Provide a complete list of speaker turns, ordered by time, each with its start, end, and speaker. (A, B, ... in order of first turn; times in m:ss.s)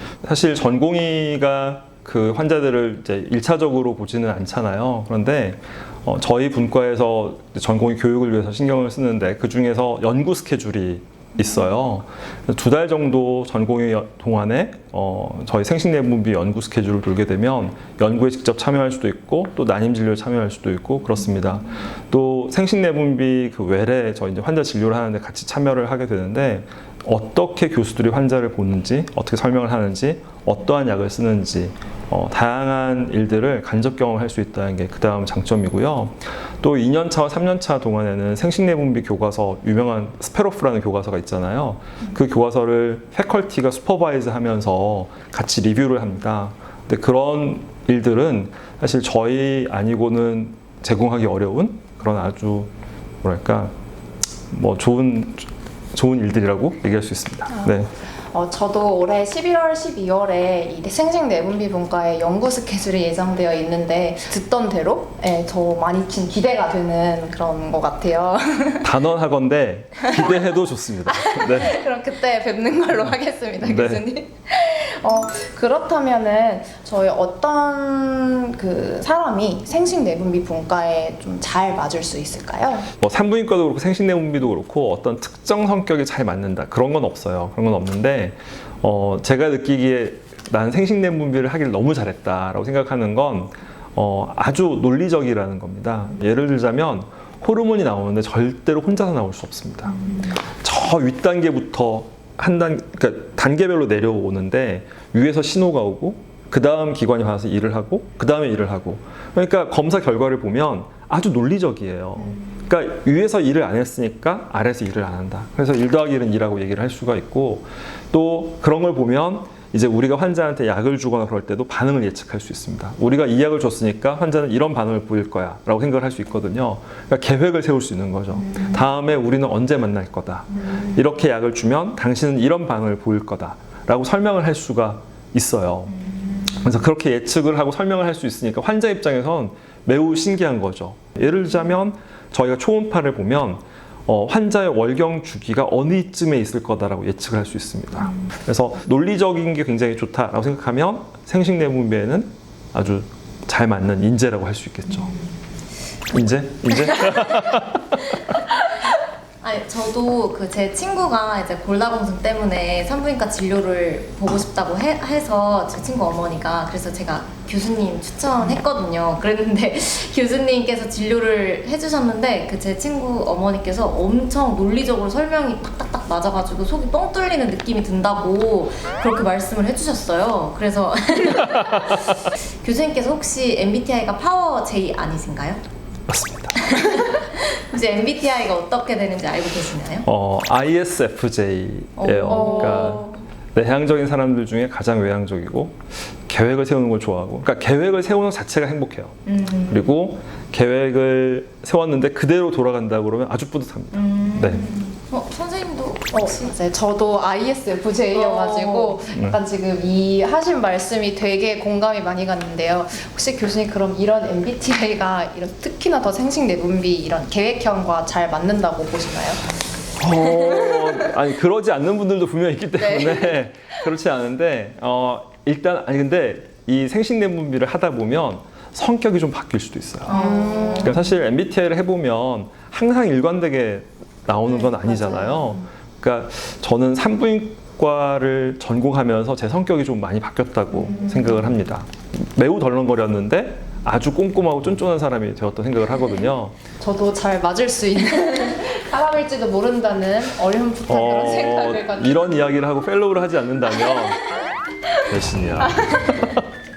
0:00.2-0:52.7 A
0:53.2-0:53.7 A
0:54.5-0:57.9 A
0:57.5-1:08.9 B
1:08.8-1:11.8 A
1:10.1-1:10.4 B
1:11.0-1:22.9 B
1:13.6-1:14.0 A
1:23.0-2:35.1 A
2:36.1-2:37.7 A
2:37.0-2:37.5 C
2:39.4-3:05.6 C
3:06.1-3:06.5 A
3:06.6-3:10.0 C
3:10.0-3:24.6 A
3:12.0-3:13.2 C
3:19.2-3:19.9 C
3:23.9-3:26.5 C
3:26.1-3:39.5 B
3:28.1-3:29.0 C
3:40.0-3:50.2 A
3:40.4-3:41.1 B
3:42.8-3:43.3 B
3:50.1-3:50.9 C
3:50.1-3:50.9 B
3:50.8-4:06.6 A
4:00.8-4:01.4 B
4:06.8-4:12.5 B
4:10.9-4:14.2 A
4:15.0-4:16.4 A
4:15.6-4:16.2 B